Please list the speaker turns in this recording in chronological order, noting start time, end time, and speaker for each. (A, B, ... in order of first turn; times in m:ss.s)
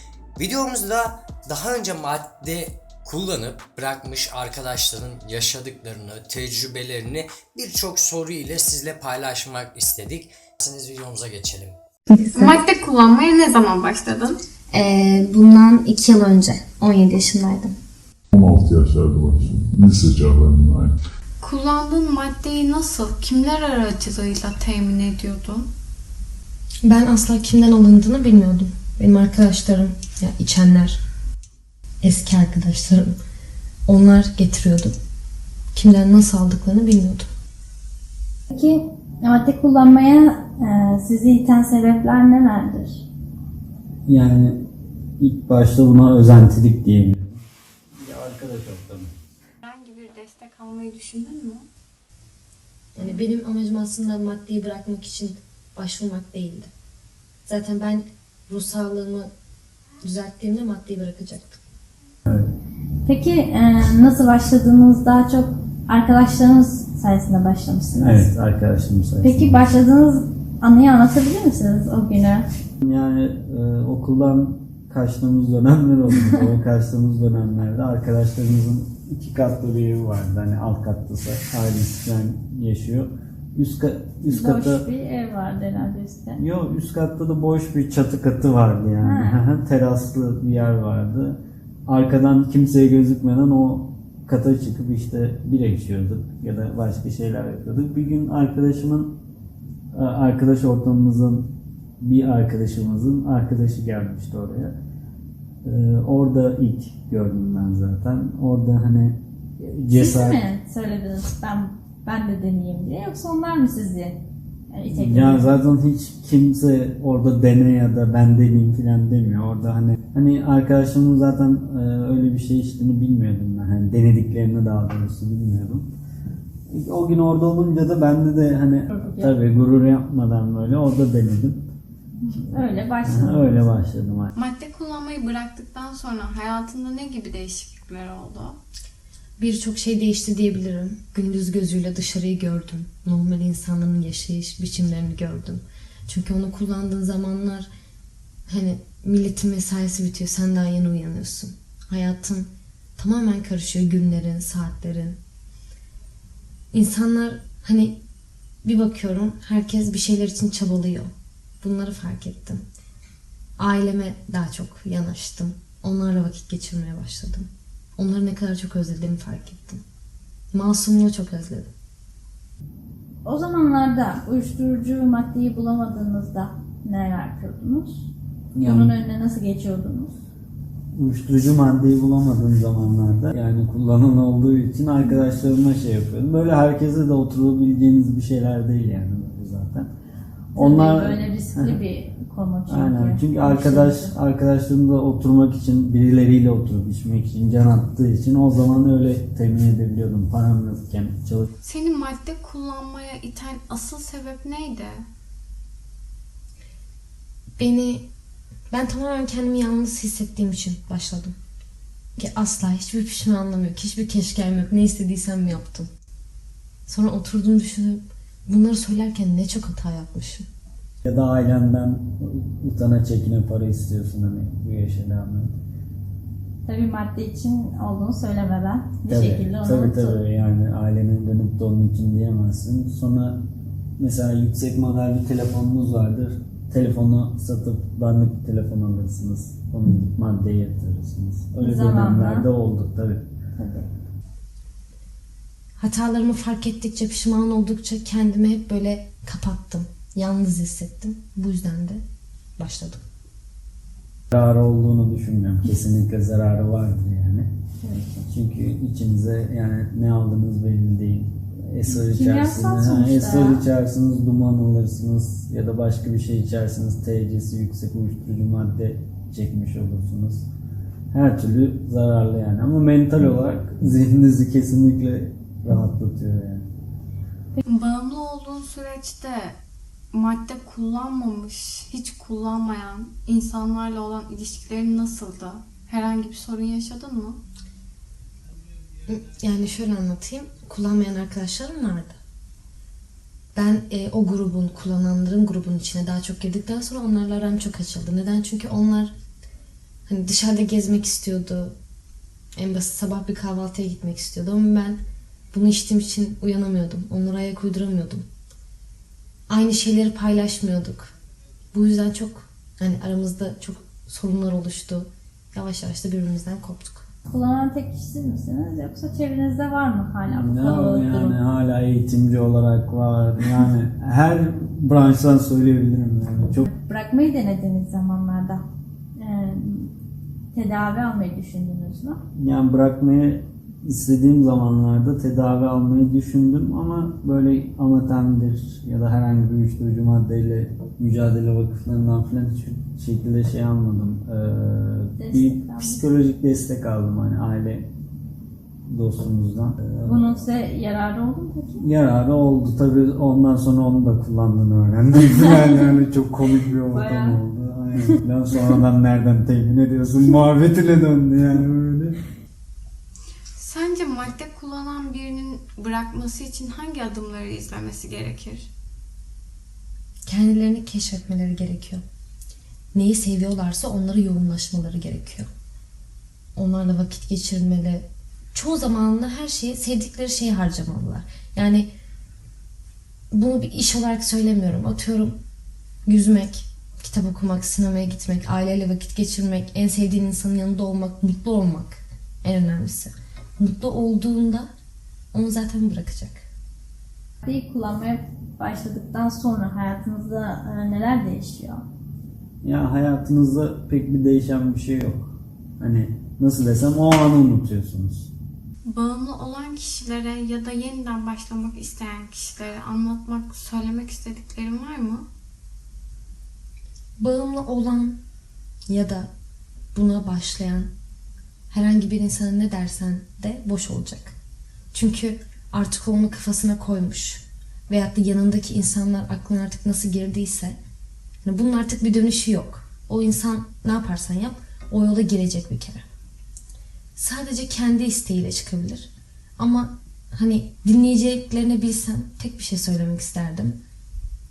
0:00.4-0:11.8 A
0:12.1-0:12.6 B
0:12.3-0:14.4 C
0:14.7-0:17.8 B
0:18.3-0:21.0 D
0:21.4-0:25.7 C
0:26.8-0:31.0 B
0:32.0-0:33.1 B
0:33.9-0:34.9 B
0:35.8-0:37.3 B
0:38.5-0:43.0 E
0:44.1-0:44.6 F
0:45.2-0:47.4 F
0:48.0-0:49.1 F
0:49.6-0:51.7 C
0:53.0-0:56.7 B
0:57.5-0:59.3 B
1:00.0-1:01.6 B
1:03.0-1:08.3 E
1:08.0-1:09.6 F
1:09.2-1:12.5 E
1:12.8-1:24.9 F
1:16.1-1:16.4 E
1:24.3-1:26.4 E
1:26.4-1:39.2 F
1:29.0-1:29.4 E
1:39.9-1:44.8 F
1:45.6-1:50.4 F
1:49.9-1:55.6 E
1:55.0-2:05.9 F
2:06.7-2:11.7 F
2:08.9-2:09.4 E
2:12.2-2:13.7 E
2:13.0-2:14.3 F
2:14.4-2:18.6 C
2:19.4-2:27.7 B
2:28.5-2:35.2 B
2:36.7-2:38.0 B
2:38.6-2:42.6 B
2:43.6-2:49.8 B
2:50.5-2:51.7 B
2:53.2-2:58.1 E
2:58.6-2:58.9 F
2:58.6-3:00.2 E
3:01.0-3:09.9 F
3:10.6-3:11.8 F
3:10.6-3:14.1 E
3:12.7-3:21.5 F
3:21.6-3:25.1 C
3:27.6-3:28.0 B
3:28.7-3:31.3 B
3:32.2-3:35.9 B
3:36.9-3:40.5 B
3:41.0-3:45.6 F
3:46.6-3:50.2 E
3:49.1-3:53.4 F
3:54.0-4:03.2 F
4:01.6-4:02.5 E
4:03.6-4:03.9 E
4:05.8-4:12.0 B
4:12.6-4:13.0 B
4:14.3-4:17.5 F
4:17.8-4:18.3 E
4:18.3-4:30.5 F
4:21.9-4:23.7 E
4:31.1-4:36.7 F
4:37.7-4:39.6 C
4:40.1-4:47.4 C
4:49.1-4:52.2 B
4:53.6-4:59.1 B
5:00.1-5:01.8 B
5:02.6-5:05.0 B
5:05.5-5:08.2 B
5:09.5-5:11.1 B
5:11.7-5:17.1 B
5:17.3-5:21.4 E
5:20.3-5:26.7 F
5:26.7-5:28.6 E
5:29.2-5:29.9 E
5:30.5-5:32.2 E
5:32.4-5:47.9 F
5:45.2-5:46.0 E
5:48.9-5:50.3 F
5:50.1-5:51.8 E
5:51.8-6:02.2 F
5:55.3-5:55.8 E
5:56.7-5:57.4 E
6:03.6-6:08.7 C
6:10.3-6:12.0 B
6:12.9-6:15.5 B
6:16.6-6:21.9 B
6:23.3-6:25.4 B
6:26.1-6:34.7 B
6:35.3-6:36.4 B
6:37.4-6:41.8 E
6:42.6-6:48.3 F
6:48.8-6:55.3 C
6:57.2-6:58.2 B
6:58.9-6:59.3 B
6:59.9-7:00.9 B
7:01.7-7:04.3 B
7:04.9-7:10.8 B
7:11.4-7:16.0 B
7:17.2-7:23.8 B